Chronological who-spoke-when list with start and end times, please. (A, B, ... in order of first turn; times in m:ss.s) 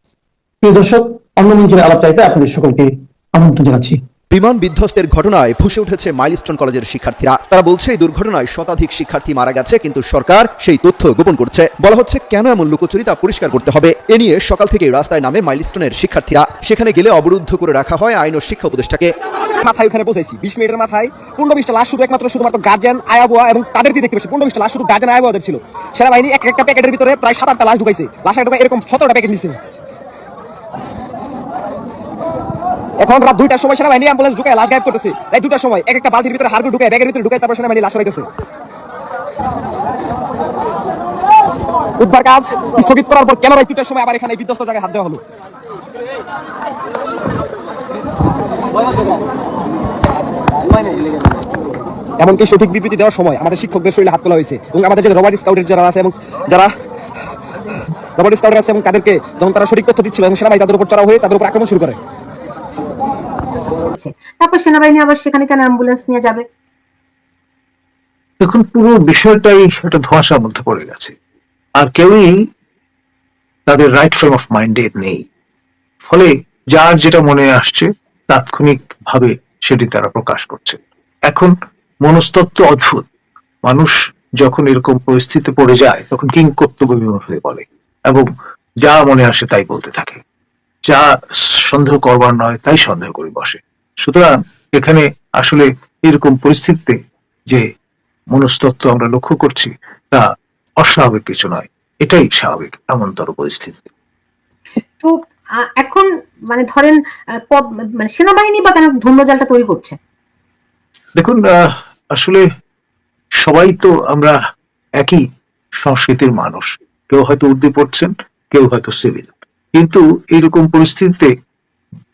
0:00.6-0:04.0 A
0:04.3-0:19.1 B
0:19.6-0:29.6 C
0:33.0-0:38.2 C
0:42.0-0:45.2 C
0:52.2-0:56.7 C
0:58.2-1:02.0 C
1:03.9-1:06.4 D
1:08.4-1:11.1 E
1:11.8-1:12.3 E
1:13.7-1:15.2 E
1:16.1-1:21.5 E
1:22.0-1:23.0 E
1:23.7-1:28.2 E
1:28.8-1:30.2 E
1:30.9-1:37.0 E
1:38.3-1:40.2 E
1:40.8-1:43.9 E
1:45.8-1:47.0 D
1:47.5-1:50.0 D
1:51.2-1:51.6 E
1:52.1-1:52.4 E
1:53.4-1:54.3 E
1:55.8-2:01.3 E